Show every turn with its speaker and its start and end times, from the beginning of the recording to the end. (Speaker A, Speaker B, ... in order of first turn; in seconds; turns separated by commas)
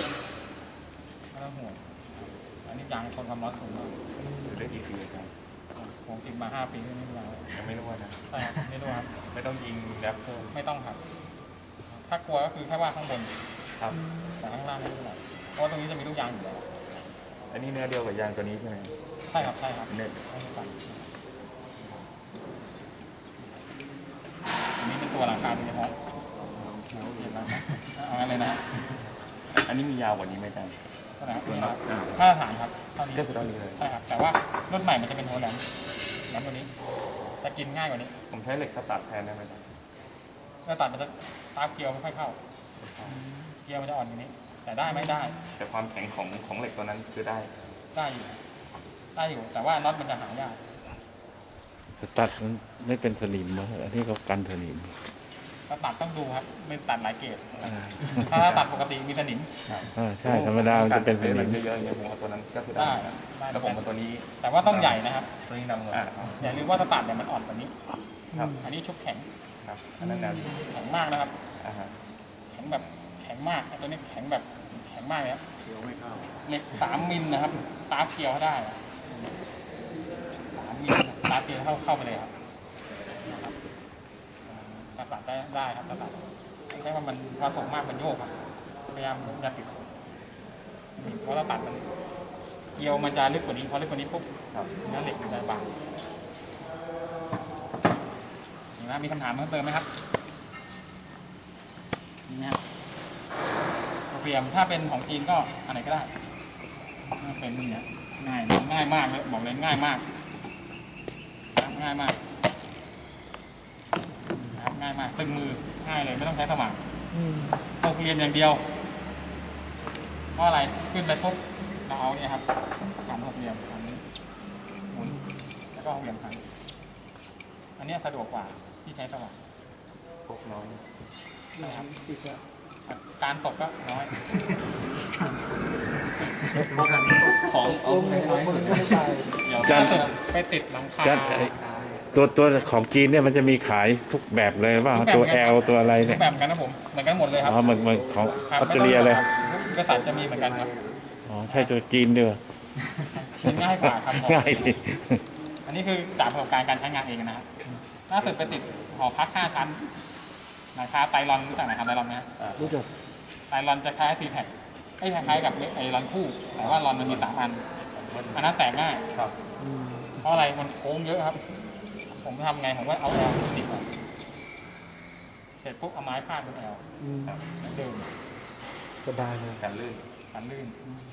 Speaker A: 1.3-4.0, Speaker B: 4.2-4.6, Speaker C: 4.4-5.3, Speaker A: 5.8-7.5, Speaker C: 7.5-8.2, Speaker A: 8.3-9.1, Speaker C: 9.2-10.5, Speaker A: 10.5-11.0, Speaker A: 12.0-13.3, Speaker B: 13.9-14.4, Speaker A: 14.4-16.7, Speaker C: 17.5-20.2, Speaker A: 19.3-21.1, Speaker A: 24.8-25.9, Speaker D: 26.5-27.4, Speaker A: 27.1-28.6, Speaker C: 29.5-30.8, Speaker A: 31.2-35.6, Speaker C: 31.4-32.1, Speaker C: 33.1-33.8, Speaker A: 36.3-36.7, Speaker A: 37.4-38.1, Speaker C: 38.3-39.6, Speaker A: 40.6-42.4, Speaker C: 42.8-43.2, Speaker B: 43.1-43.5, Speaker A: 43.6-45.4, Speaker B: 44.9-45.5, Speaker C: 45.6-47.5, Speaker A: 47.9-48.4, Speaker A: 49.1-50.6, Speaker E: 52.0-54.9, Speaker A: 55.7-59.5, Speaker E: 57.6-58.6, Speaker C: 58.1-58.5, Speaker C: 59.7-66.5, Speaker E: 59.9-61.6, Speaker A: 62.7-63.8, Speaker A: 64.4-65.3, Speaker A: 66.4-67.7, Speaker B: 68.3-68.6, Speaker A: 68.6-69.3, Speaker C: 69.6-70.6, Speaker B: 70.0-70.6, Speaker A: 70.5-71.3, Speaker C: 71.6-71.9, Speaker A: 72.5-75.4, Speaker D: 75.6-76.4, Speaker A: 76.5-78.8, Speaker A: 80.5-82.3, Speaker A: 83.2-83.5, Speaker A: 84.5-88.3, Speaker A: 88.9-89.9, Speaker A: 91.0-91.9, Speaker A: 92.8-95.7, Speaker A: 98.8-99.9, Speaker A: 102.3-102.6, Speaker A: 104.1-106.1, Speaker A: 107.1-110.0, Speaker A: 111.5-112.2, Speaker A: 114.5-116.8, Speaker B: 117.1-117.6, Speaker A: 117.8-118.6, Speaker A: 120.4-122.4, Speaker A: 123.0-124.0, Speaker A: 124.9-125.2, Speaker B: 125.0-125.4, Speaker A: 125.7-126.4, Speaker A: 127.8-129.4, Speaker C: 130.2-130.8, Speaker B: 131.6-132.4, Speaker A: 131.6-131.9, Speaker A: 132.9-134.1, Speaker D: 136.5-137.4, Speaker C: 136.5-140.2, Speaker B: 137.7-139.4, Speaker E: 139.6-140.1, Speaker A: 139.6-141.5, Speaker E: 141.0-141.5, Speaker D: 141.6-142.0, Speaker E: 142.1-146.2, Speaker A: 144.9-147.6, Speaker E: 147.4-149.3, Speaker A: 148.5-150.7, Speaker D: 149.2-151.0, Speaker E: 151.2-152.4, Speaker A: 153.1-154.7, Speaker E: 153.4-155.2, Speaker A: 155.7-157.4, Speaker A: 158.1-159.9, Speaker C: 158.2-158.6, Speaker A: 160.7-162.3, Speaker C: 162.4-162.7, Speaker B: 162.6-162.9, Speaker A: 163.5-167.6, Speaker C: 166.6-167.3, Speaker C: 167.9-168.5, Speaker A: 168.3-169.0, Speaker B: 169.6-170.2, Speaker A: 170.2-171.4, Speaker A: 172.1-173.8, Speaker A: 175.6-176.8, Speaker B: 177.0-177.8, Speaker A: 177.6-178.1, Speaker B: 179.0-179.6, Speaker C: 179.6-180.0, Speaker A: 180.3-180.8